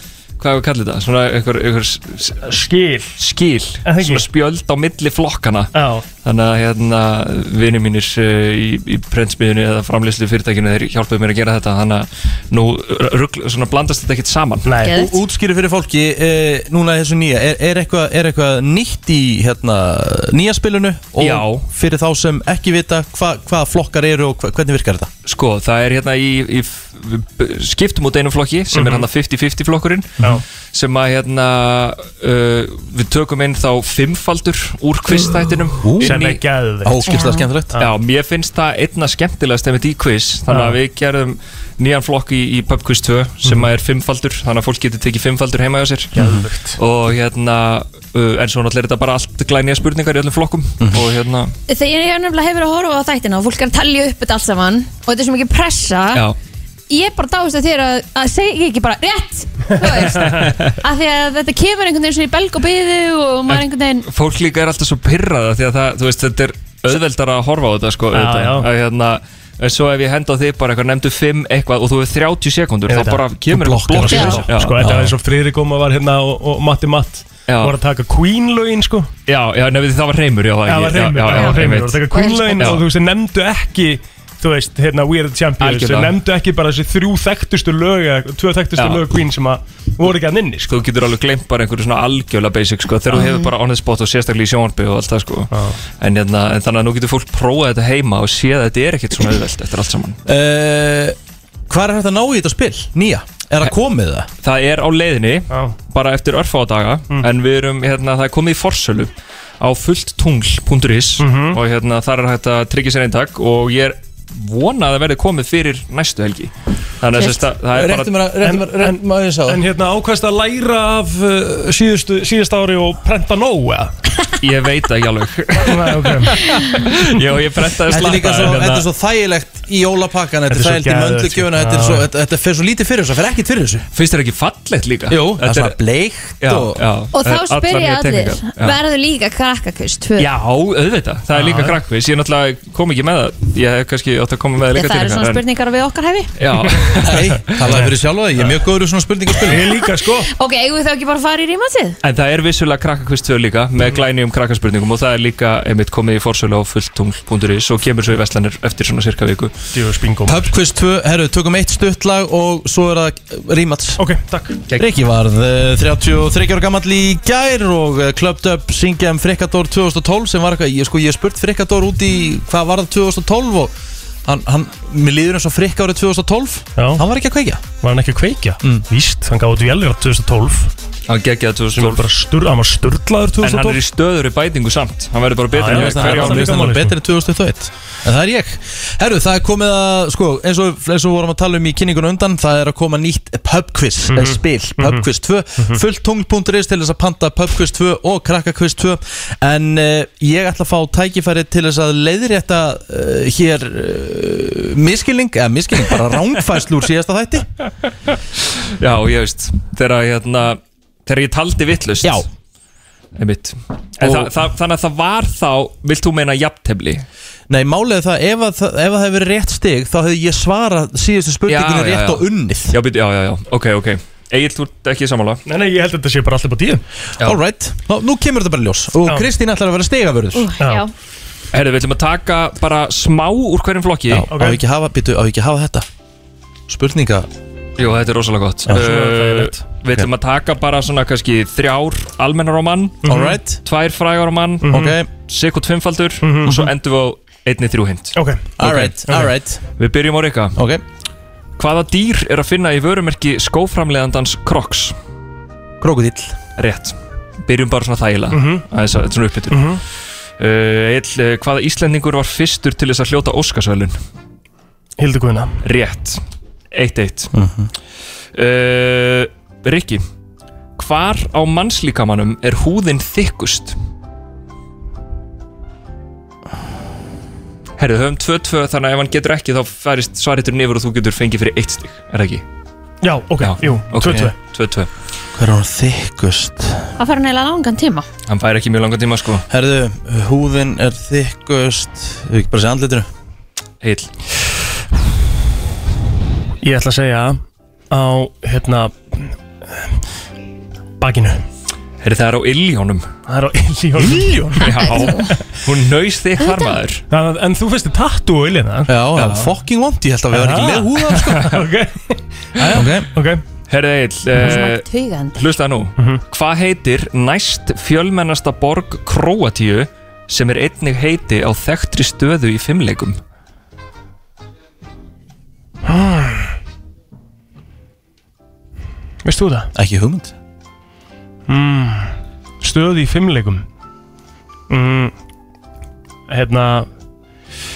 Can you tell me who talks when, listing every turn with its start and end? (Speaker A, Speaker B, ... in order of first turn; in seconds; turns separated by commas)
Speaker A: 0.4-2.5, Speaker B: 2.4-3.1, Speaker A: 3.2-5.7, Speaker B: 3.8-4.3, Speaker B: 5.7-6.0, Speaker A: 6.2-14.7, Speaker B: 14.6-14.9, Speaker C: 14.8-15.2, Speaker D: 14.9-25.1, Speaker A: 21.2-21.7, Speaker A: 25.2-30.2, Speaker B: 28.7-29.1, Speaker A: 30.7-36.4, Speaker D: 35.8-36.2, Speaker B: 36.0-37.0, Speaker D: 36.8-37.7, Speaker C: 37.1-37.5, Speaker A: 37.8-46.1, Speaker B: 40.5-40.8, Speaker B: 46.1-46.8, Speaker D: 46.2-46.5, Speaker A: 46.8-51.5, Speaker C: 51.7-56.2, Speaker C: 56.9-64.1, Speaker A: 60.2-60.7, Speaker A: 63.5-74.9, Speaker B: 68.1-68.7, Speaker B: 72.9-73.3, Speaker D: 73.5-75.2, Speaker B: 74.0-79.1, Speaker C: 74.1-74.4, Speaker A: 77.5-77.8, Speaker A: 79.3-82.0, Speaker B: 80.7-90.7, Speaker C: 81.3-82.8, Speaker A: 82.6-82.8, Speaker A: 85.6-86.1, Speaker A: 88.8-89.1, Speaker A: 90.7-100.2, Speaker B: 95.5-95.8, Speaker D: 100.2-101.2, Speaker D: 101.7-104.3, Speaker A: 104.4-118.1, Speaker B: 105.5-105.8, Speaker B: 111.2-111.6, Speaker D: 117.7-119.6, Speaker B: 118.4-123.9, Speaker A: 124.4-128.8, Speaker B: 125.6-126.4, Speaker D: 127.9-133.8, Speaker B: 130.5-132.1, Speaker A: 133.9-135.8, Speaker D: 135.1-136.8, Speaker A: 136.4-138.8, Speaker C: 137.1-140.3, Speaker A: 140.2-145.4, Speaker B: 141.3-141.8, Speaker C: 144.7-146.3, Speaker A: 146.4-147.7, Speaker D: 147.0-149.7, Speaker B: 147.7-147.9, Speaker B: 149.5-150.3, Speaker C: 150.3-152.0, Speaker A: 152.0-159.5, Speaker B: 159.7-160.5, Speaker D: 160.3-164.0, Speaker B: 164.0-164.6, Speaker D: 164.7-173.7, Speaker D: 174.2-177.6, Speaker B: 176.8-177.0, Speaker B: 177.8-180.7, Speaker A: 181.1-182.1, Speaker B: 181.7-183.8, Speaker A: 183.4-186.6, Speaker B: 185.5-186.9, Speaker D: 185.7-207.5, Speaker B: 194.1-195.0, Speaker A: 208.8-212.3, Speaker A: 213.2-217.0, Speaker D: 214.0-214.3, Speaker D: 217.5-222.7, Speaker A: 221.5-225.4, Speaker B: 225.5-226.8, Speaker D: 227.2-230.5, Speaker C: 230.3-230.9, Speaker A: 231.5-234.3, Speaker D: 234.1-235.8, Speaker B: 234.3-234.6, Speaker D: 236.7-237.3, Speaker A: 237.8-243.0, Speaker B: 238.7-239.6, Speaker B: 243.0-243.4, Speaker D: 243.1-243.6, Speaker A: 243.6-248.2, Speaker B: 244.6-244.9, Speaker D: 244.7-245.1, Speaker B: 246.2-246.6, Speaker D: 246.4-246.7, Speaker B: 248.1-249.3, Speaker D: 248.6-249.6, Speaker A: 249.8-250.6, Speaker D: 250.6-250.8, Speaker A: 251.6-254.9, Speaker D: 255.8-256.4, Speaker A: 256.6-259.8, Speaker B: 258.3-258.6, Speaker B: 259.5-259.8, Speaker A: 260.4-263.9, Speaker B: 265.0-265.6, Speaker A: 265.6-266.2, Speaker A: 266.7-267.3, Speaker D: 267.3-267.7, Speaker A: 268.3-270.0, Speaker A: 270.8-273.8, Speaker A: 277.8-282.4, Speaker B: 283.0-284.3, Speaker A: 283.4-284.9, Speaker D: 284.0-284.3, Speaker D: 285.3-286.9, Speaker C: 287.0-288.1, Speaker A: 288.3-289.4, Speaker D: 289.5-293.1, Speaker A: 293.8-294.1, Speaker B: 296.6-297.4, Speaker B: 297.9-299.8, Speaker B: 301.0-301.4, Speaker A: 302.0-303.1, Speaker B: 303.3-304.8, Speaker D: 304.0-304.6, Speaker A: 304.6-307.0, Speaker C: 304.9-305.3, Speaker C: 306.4-306.7, Speaker B: 307.1-309.3, Speaker D: 308.9-311.6, Speaker B: 310.3-313.4, Speaker D: 312.6-313.1, Speaker A: 313.7-323.2, Speaker C: 314.4-315.4, Speaker B: 325.9-326.5, Speaker B: 329.2-329.7, Speaker D: 329.7-330.3, Speaker B: 331.5-333.6, Speaker B: 334.7-335.1, Speaker B: 336.3-336.9